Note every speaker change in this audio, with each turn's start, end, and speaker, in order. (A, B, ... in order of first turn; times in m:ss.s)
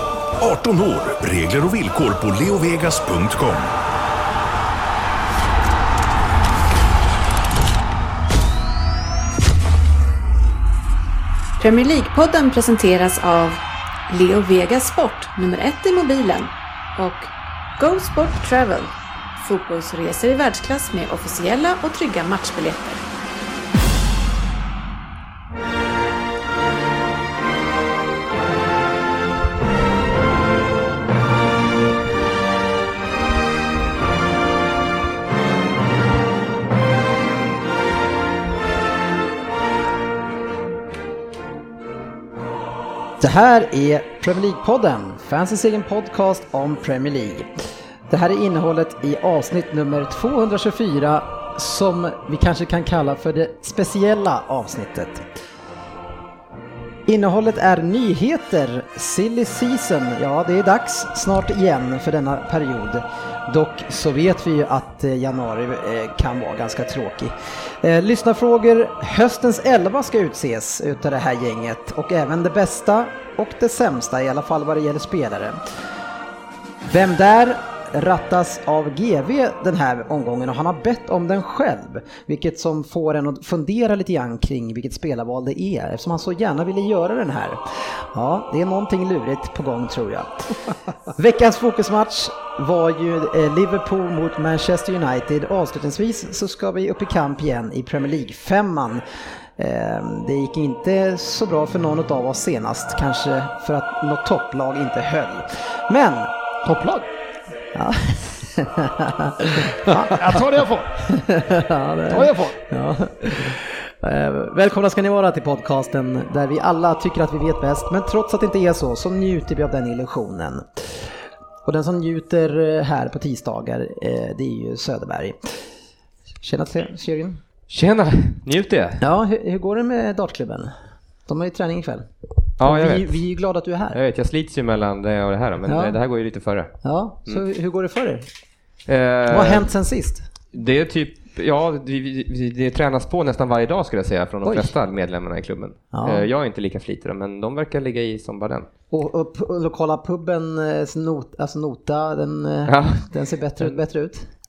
0:00.4-0:03.7 A
0:11.6-0:23.0 B
0:43.2-0:47.5 C
0:48.1-0:55.2 C
0:57.1-1:15.6 C
1:16.8-1:30.6 C
1:31.1-1:39.0 C
1:39.6-1:46.3 C
1:46.6-1:47.1 D
1:47.7-1:50.1 C
1:50.0-1:51.0 D
1:51.1-2:01.0 C
1:52.1-1:52.6 D
2:01.6-2:05.4 C
2:06.4-2:07.4 C
2:07.7-2:09.0 E
2:09.0-2:10.7 C
2:11.3-2:12.0 C
2:12.6-2:13.1 E
2:12.6-2:14.0 C
2:13.9-2:16.7 E
2:15.7-2:16.0 C
2:16.8-2:18.2 C
2:18.9-2:19.7 E
2:19.3-2:20.2 C
2:20.5-2:28.7 E
2:24.4-2:24.7 C
2:25.9-2:26.2 C
2:28.9-2:34.3 C
2:32.7-2:33.0 E